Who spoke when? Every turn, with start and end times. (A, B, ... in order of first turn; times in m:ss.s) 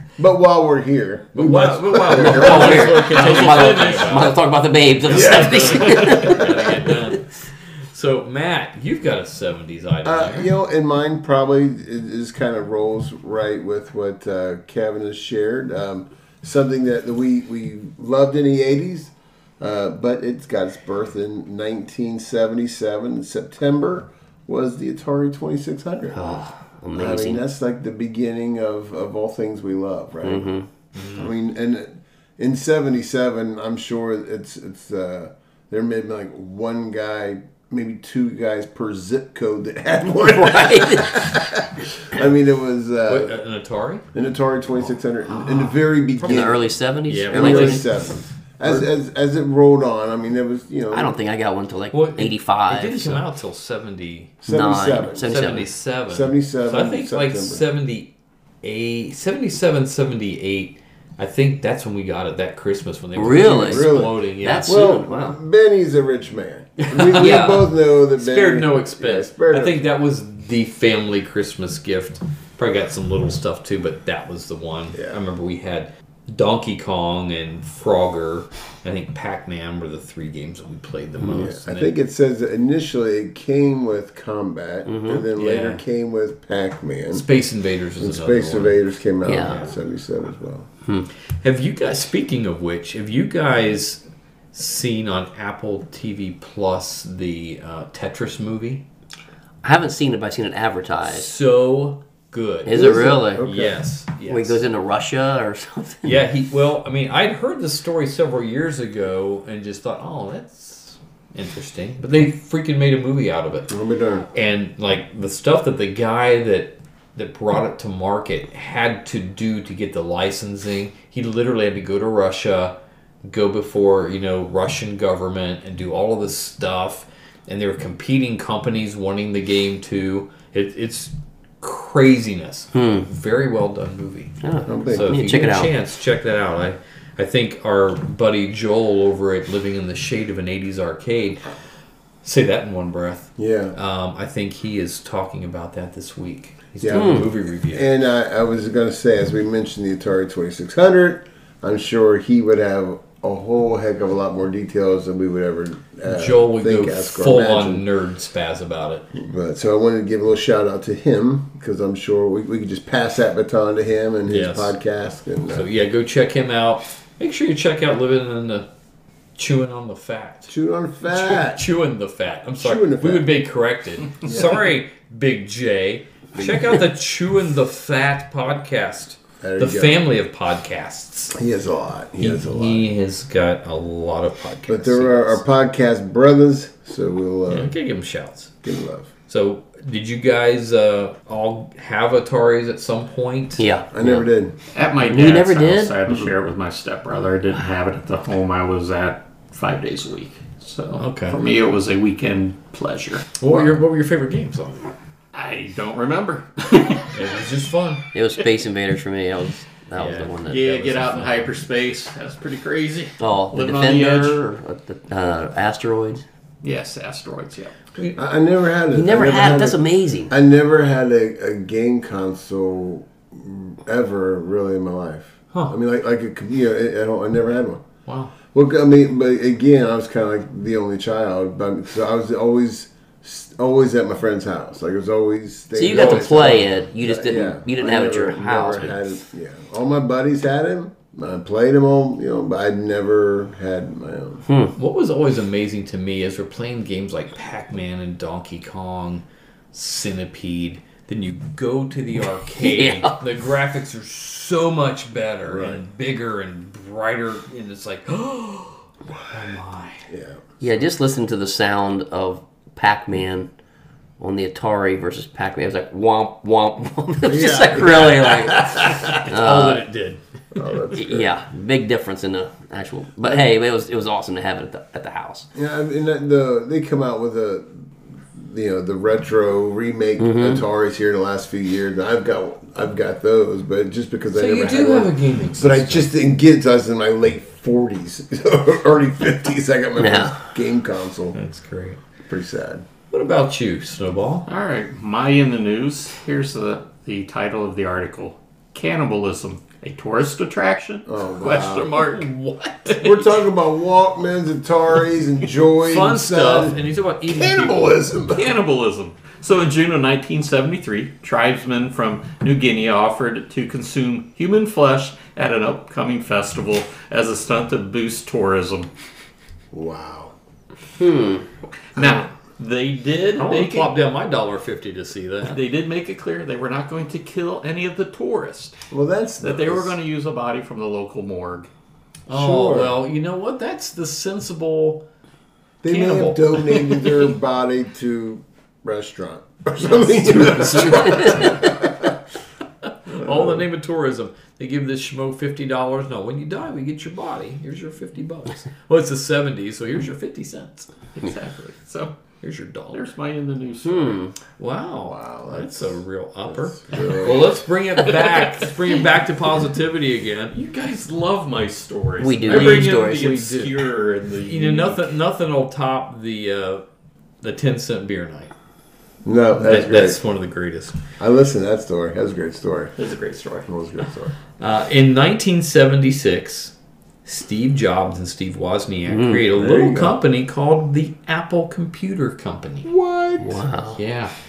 0:00.2-0:03.2 A
0:01.3-0:04.4 B
0:02.1-0:06.4 C
0:03.6-0:03.9 D
0:05.0-0:07.3 B
0:05.1-0:06.7 A
0:07.9-0:10.5 B
0:10.0-0:26.4 A
0:26.1-0:27.4 C
0:26.9-0:30.5 A
0:30.2-0:30.7 C
0:31.0-0:31.3 B
0:31.1-0:43.3 A
0:40.0-0:41.4 C
0:43.1-0:44.0 B
0:44.1-0:51.2 A
0:46.2-0:47.9 C
0:47.1-0:47.9 B
0:50.9-0:53.2 C
0:51.9-0:54.4 B
0:54.4-0:55.4 A
0:54.4-0:55.6 C
0:55.2-1:04.8 B
0:56.1-0:57.6 A
1:03.2-1:05.4 C
1:03.4-1:09.9 A
1:06.8-1:07.6 B
1:07.2-1:07.6 C
1:08.2-1:21.9 B
1:14.9-1:15.2 A
1:21.2-1:27.2 A
1:24.8-1:25.2 C
1:25.4-1:25.8 B
1:27.1-1:28.8 B
1:28.0-1:30.7 A
1:29.2-1:29.6 C
1:29.3-1:29.7 B
1:31.4-1:38.8 B
1:39.6-1:41.3 C
1:41.0-1:44.6 B
1:42.6-1:43.5 C
1:42.7-1:43.7 A
1:44.3-1:46.2 C
1:46.0-1:53.7 B
1:53.7-1:54.3 A
1:54.3-2:14.3 B
2:12.7-2:13.0 C
2:14.4-2:15.7 C
2:14.7-2:15.1 A
2:14.9-2:21.4 B
2:22.2-2:27.9 B
2:23.4-2:23.8 A
2:26.8-2:37.9 A
2:26.9-2:27.3 C
2:36.0-2:39.1 B
2:39.1-2:45.7 A
2:44.3-2:44.8 B
2:45.5-2:48.7 B
2:49.4-2:50.5 B
2:50.5-2:51.7 A
2:51.1-3:01.4 B
2:52.6-2:53.3 A
2:54.2-2:54.6 A
2:56.4-2:56.7 A
2:59.4-3:00.0 A
3:01.3-3:02.9 A
3:02.2-3:05.4 B
3:04.7-3:07.7 A
3:07.5-3:08.5 B
3:08.6-3:09.1 A
3:09.3-3:13.7 B
3:13.6-3:14.3 C
3:13.9-3:14.5 A
3:14.7-3:23.3 D
3:15.0-3:16.0 C
3:20.9-3:21.4 B
3:23.4-3:24.9 B
3:25.3-3:27.1 D
3:27.1-3:28.0 B
3:28.1-3:30.6 C
3:29.9-3:31.5 B
3:30.5-3:34.4 D
3:33.2-3:36.2 C
3:36.6-3:37.7 D
3:38.1-3:47.8 A
3:38.9-3:40.3 C
3:48.1-3:48.3 B
3:48.5-4:04.4 A
3:55.8-3:59.1 C
3:55.9-3:56.7 B
4:04.5-4:04.7 C
4:04.8-4:20.1 B
4:12.6-4:13.2 C
4:15.4-4:15.8 A
4:19.1-4:19.4 A
4:20.1-4:20.4 A
4:20.6-4:23.5 C
4:24.2-4:29.8 C
4:27.2-4:29.0 A
4:28.8-4:30.2 B
4:30.5-4:31.3 A
4:30.9-4:35.5 C
4:35.5-4:51.4 A
4:40.2-4:40.6 C
4:44.3-4:46.1 B
4:50.0-4:50.4 C
4:51.3-4:52.0 B
4:52.2-4:52.8 A
4:53.1-4:54.4 B
4:54.5-5:02.3 D
5:01.1-5:02.0 A
5:01.9-5:03.3 B
5:03.0-5:06.8 A
5:05.8-5:08.1 B
5:07.3-5:08.5 A
5:08.3-5:18.9 D
5:19.7-5:20.3 A
5:21.0-5:21.5 C
5:21.9-5:23.9 D
5:23.4-5:25.6 B
5:25.4-5:28.8 D
5:28.9-5:30.0 A
5:29.4-5:31.7 D
5:32.3-5:35.0 B
5:32.3-5:33.0 A
5:35.8-5:42.1 A
5:35.8-5:37.2 B
5:40.2-5:41.7 B
5:43.1-5:50.9 B
5:43.2-5:43.6 A
5:51.1-5:52.1 D
5:52.4-5:53.1 B
5:52.9-5:54.2 D
5:53.8-5:54.3 C
5:54.6-6:00.5 B
5:55.0-5:57.4 A
6:00.5-6:05.1 D
6:02.2-6:03.3 C
6:02.4-6:03.9 B
6:04.4-6:06.8 B
6:07.4-6:08.5 B
6:09.2-6:10.2 A
6:09.6-6:11.0 B
6:11.2-6:12.9 A
6:13.0-6:13.7 D
6:13.7-6:14.3 A
6:14.6-6:16.7 B
6:17.2-6:22.9 B
6:19.1-6:19.4 C
6:19.5-6:20.2 A
6:22.8-6:23.6 A
6:23.4-6:24.0 C
6:24.0-6:24.3 B